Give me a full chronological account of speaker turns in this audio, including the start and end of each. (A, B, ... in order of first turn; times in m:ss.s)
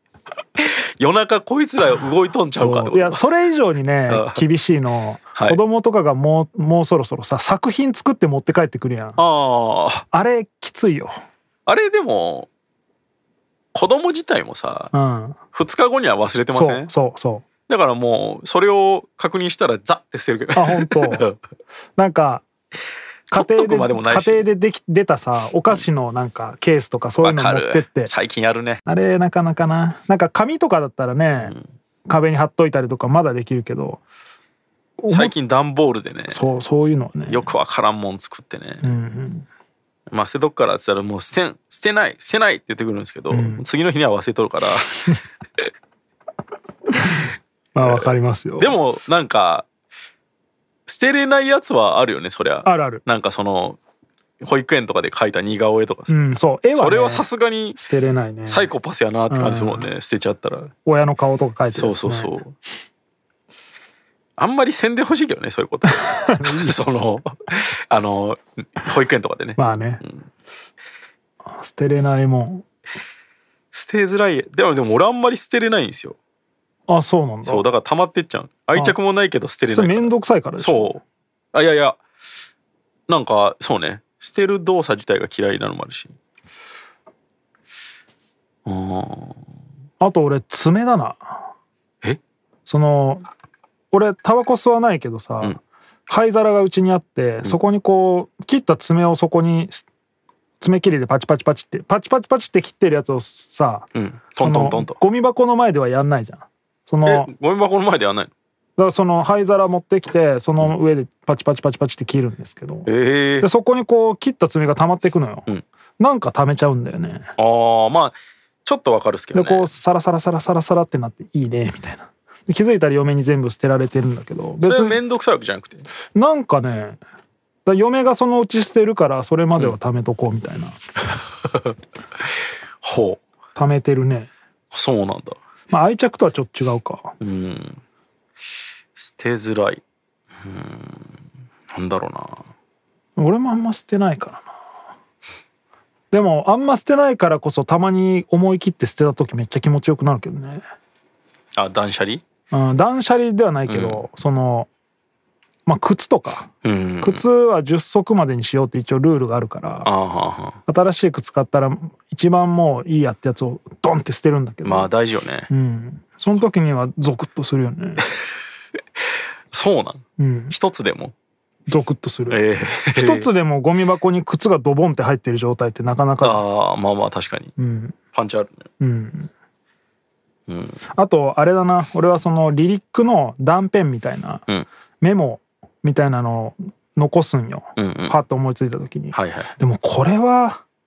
0:00.6-0:03.2 A
0:02.5-0:09.2 B
0:04.1-0:04.4 A
0:09.2-0:10.0 A
0:10.1-0:11.1 B
0:11.6-0:12.5 A
0:13.7-0:14.9 A
0:14.9-0:15.4 B
0:15.5-0:16.9 A
0:16.5-0:17.4 B
0:17.7-0:21.4 A
0:20.5-0:21.3 B
0:22.0-0:22.4 B
0:23.3-0:28.1 B
0:23.3-0:24.4 A
0:27.2-0:28.8 A
0:28.8-0:31.6 B
0:32.1-0:34.0 B
0:35.0-0:35.3 B
0:35.1-0:36.5 A
0:36.3-0:37.5 B
0:37.3-0:38.9 A
0:38.8-0:39.4 B
0:40.1-0:45.7 A
0:43.3-0:43.6 B
0:47.0-0:48.8 B
0:47.8-0:49.6 A
0:50.9-0:53.8 A
0:52.6-0:53.0 B
0:54.4-0:56.1 A
0:56.1-0:58.7 B
0:56.7-0:57.8 A
0:58.5-1:00.7 A
0:59.3-0:59.9 B
1:00.8-1:02.3 B
1:01.7-1:02.5 A
1:04.4-1:10.3 A
1:09.6-1:10.0 B
1:11.4-1:12.6 B
1:13.7-1:16.2 A
1:16.9-1:17.6 B
1:17.4-1:21.0 A
1:19.7-1:21.0 B
1:21.5-1:22.0 A
1:23.1-1:26.1 A
1:28.6-1:29.4 A
1:30.0-1:31.5 B
1:32.6-1:33.2 B
1:33.9-1:39.8 B
1:40.6-1:47.3 B
1:43.9-1:45.0 A
1:47.0-1:48.3 A
1:48.8-1:55.5 B
1:52.8-1:53.5 A
1:56.0-1:57.3 B
1:57.4-1:59.7 A
1:59.3-2:05.0 B
2:04.6-2:05.8 A
2:06.1-2:07.0 B
2:07.6-2:10.8 B
2:12.8-2:13.2 A
2:13.5-2:14.3 B
2:14.7-2:15.4 A
2:15.7-2:17.2 B
2:17.2-2:17.8 A
2:19.0-2:19.8 A
2:20.4-2:21.1 A
2:21.7-2:22.5 A
2:23.2-2:24.5 B
2:26.1-2:30.6 B
2:31.6-2:32.2 A
2:32.5-2:34.7 B
2:33.7-2:34.0 A
2:35.6-2:36.5 B
2:36.6-2:37.2 A
2:37.0-2:39.9 B
2:39.8-2:40.6 A
2:40.6-2:44.9 B
2:44.6-2:45.5 A
2:45.5-2:48.0 B
2:49.5-2:51.1 A
2:50.2-2:50.5 B
2:51.7-2:52.4 B
2:52.3-2:53.3 A
2:52.9-2:56.4 B
2:56.2-2:57.5 A
2:57.6-2:58.0 B
2:58.1-2:58.7 A
2:58.8-2:59.3 B
3:00.5-3:00.8 A
3:00.9-3:04.4 B
3:05.0-3:10.6 B
3:07.8-3:08.2 A
3:09.1-3:09.6 A